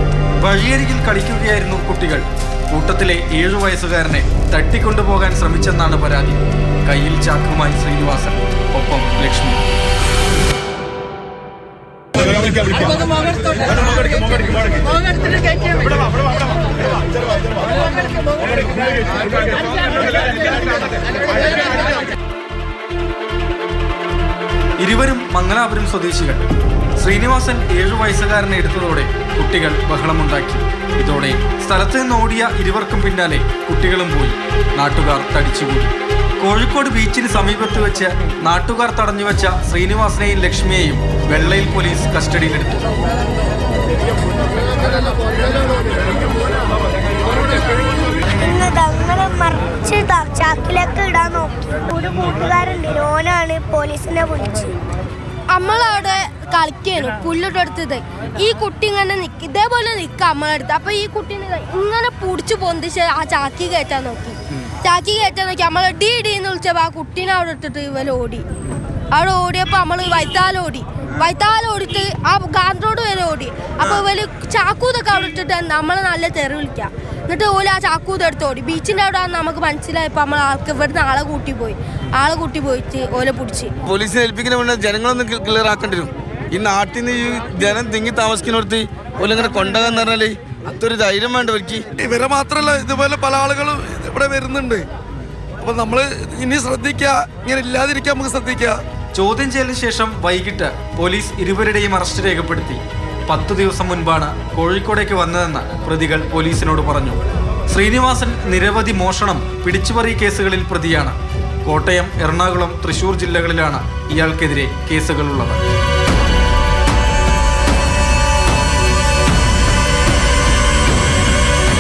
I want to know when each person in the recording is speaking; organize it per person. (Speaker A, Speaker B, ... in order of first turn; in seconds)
Speaker A: 0.4-9.6, 24.8-26.4, 27.0-42.9, 99.1-107.2, 107.7-115.6
Speaker B: 48.3-54.8
Speaker C: 55.5-68.5, 69.1-83.7
Speaker D: 83.9-91.8
Speaker E: 92.0-94.8, 95.6-98.8